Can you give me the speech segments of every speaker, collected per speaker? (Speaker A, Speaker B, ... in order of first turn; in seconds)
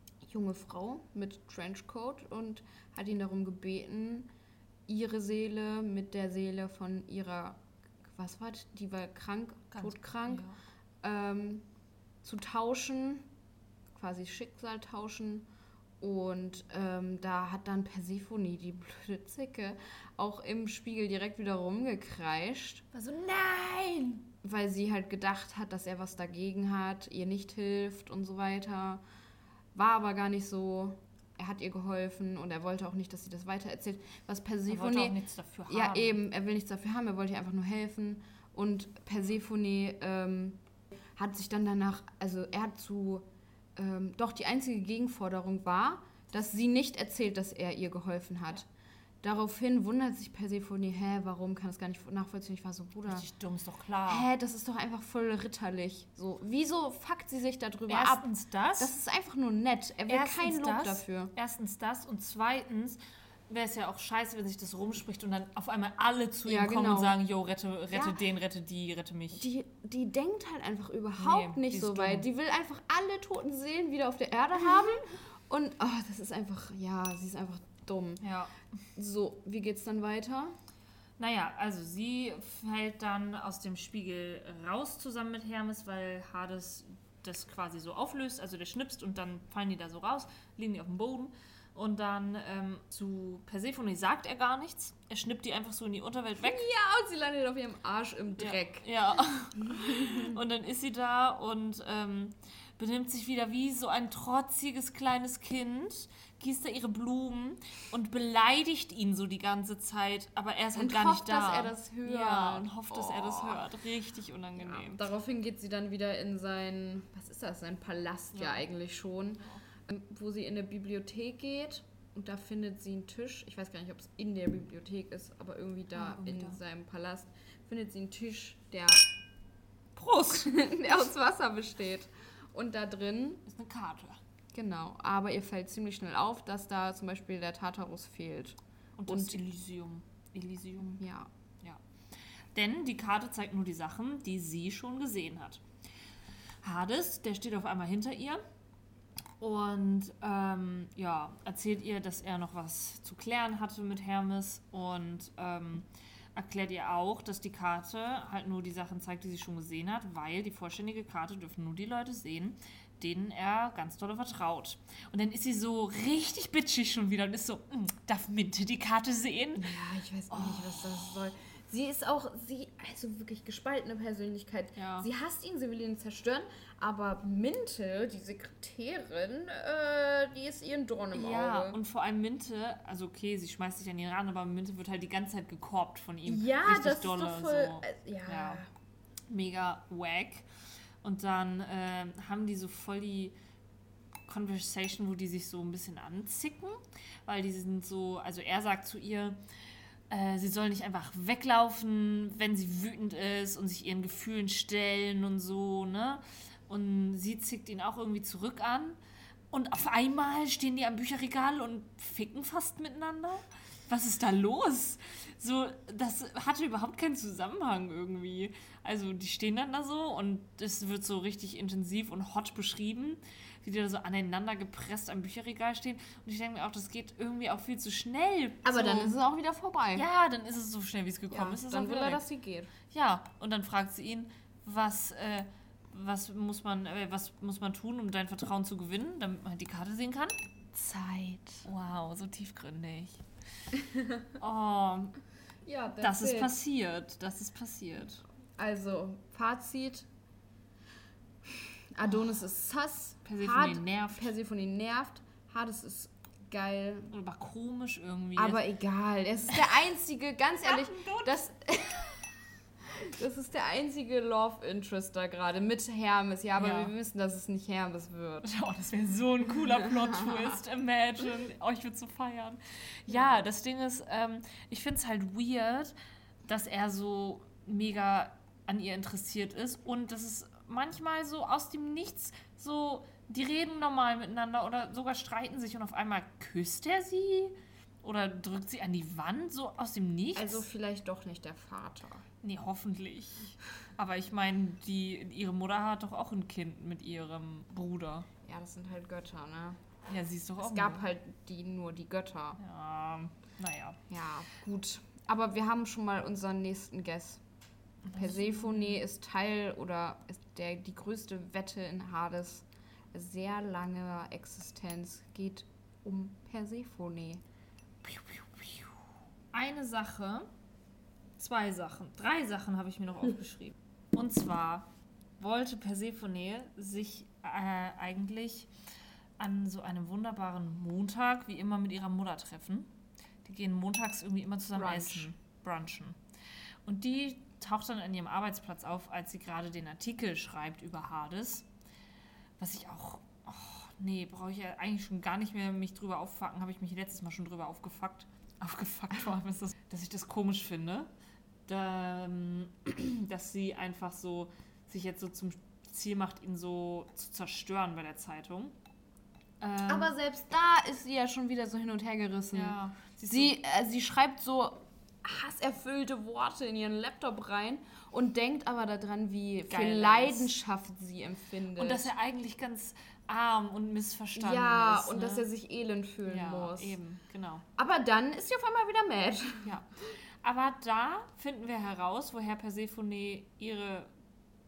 Speaker A: 0.2-4.3, 4.9-10.5, 11.0-11.7, 12.2-13.3, 13.9-15.5, 16.0-22.9, 24.4-29.0, 29.7-35.1, 35.7-40.6, 41.1-48.7, 49.2-53.2, 54.1-61.3, 66.5-67.2, 67.9-68.2, 69.4-78.2, 79.0-80.5, 96.4-98.8, 99.5-100.4, 110.7-113.7, 114.5-129.1, 130.3-133.4, 134.5-139.4, 140.9-141.3, 169.6-181.8, 186.2-188.7, 228.6-230.1, 231.3-232.7, 240.7-241.7, 243.8-244.2, 245.6-246.6, 248.6-250.1, 251.5-257.1, 258.4-262.1, 262.9-268.5, 273.1-273.4, 290.3-292.2, 298.4-299.8, 300.6-302.6, 304.1-307.4, 308.1-317.4, 334.7-335.3, 359.9-362.8, 363.3-372.1, 374.4-377.0, 377.8-379.6
Speaker B: 9.7-10.6, 22.9-24.2, 34.7-36.2, 53.1-54.3, 57.9-58.9, 60.0-69.5, 71.2-72.3, 78.2-78.5, 81.2-96.6, 98.4-115.0, 118.3-118.7, 125.9-126.6, 129.9-130.6, 133.4-134.2, 139.0-141.0, 142.5-145.6, 146.6-148.4, 149.4-169.7, 170.3-170.9, 174.8-175.1, 181.1-188.6, 189.3-190.5, 191.0-193.3, 194.3-199.4, 200.1-209.0, 209.5-229.2, 229.9-232.2, 232.9-240.3, 241.6-243.2, 244.4-245.1, 246.0-248.2, 253.2-254.3, 257.1-258.6, 260.6-261.4, 266.6-266.9, 268.4-275.9, 276.5-290.7, 292.4-298.3, 300.1-301.1, 302.6-304.0, 308.0-309.0, 318.0-318.9, 319.5-320.5, 321.4-324.9, 325.4-328.7, 329.4-332.9, 333.4-336.2, 336.8-341.7, 342.6-351.1, 351.7-358.7, 359.6-360.1, 362.5-363.6, 369.7-370.5, 371.8-375.4, 376.2-377.6, 379.6-379.9, 380.4-384.1